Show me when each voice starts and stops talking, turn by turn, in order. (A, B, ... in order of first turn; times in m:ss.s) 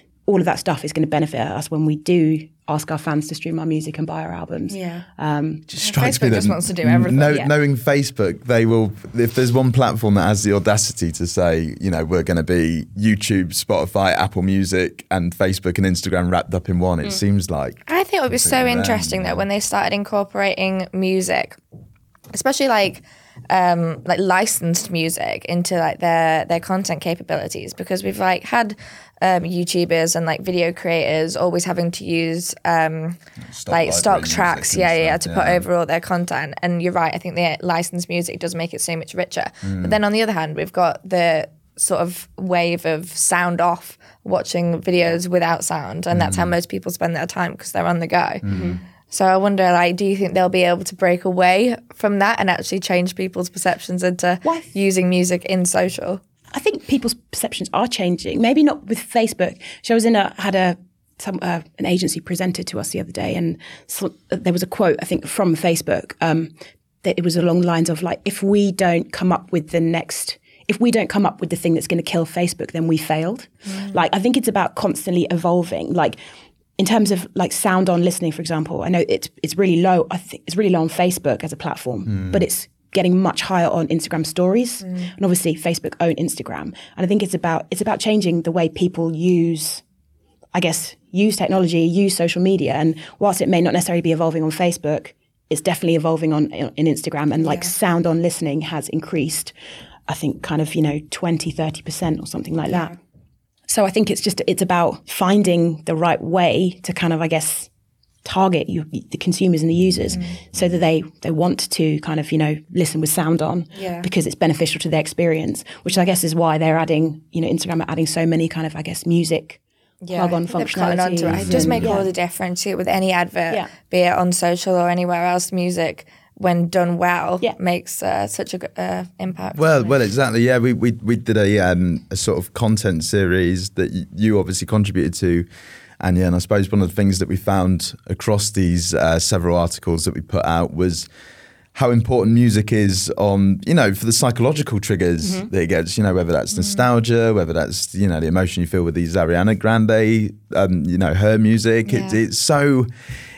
0:00.2-0:05.6 A
0:04.7-0:05.0 B
0:05.7-0:19.4 C
0:05.8-0:07.5 B
0:17.9-0:21.6 B
0:22.3-0:48.4 B
0:33.5-0:35.6 C
0:39.6-0:40.0 C
0:46.1-0:46.5 C
0:48.4-0:48.8 C
0:48.5-0:48.8 A
0:49.1-0:56.2 B
0:56.5-1:16.2 A
1:16.8-1:29.8 A
1:22.1-1:22.4 C
1:30.5-1:39.5 A
1:37.4-1:37.7 B
1:40.1-1:42.9 A
1:42.7-1:42.9 B
1:43.7-1:47.7 A
1:48.2-1:59.6 A
1:50.1-1:50.4 B
1:53.7-1:54.1 B
2:00.0-2:09.9 B
2:00.1-2:02.1 A
2:01.2-2:02.0 C
2:09.5-2:15.5 C
2:16.0-2:21.1 C
2:21.7-2:32.9 C
2:25.2-2:25.5 A
2:26.5-2:26.8 B
2:31.9-2:32.2 B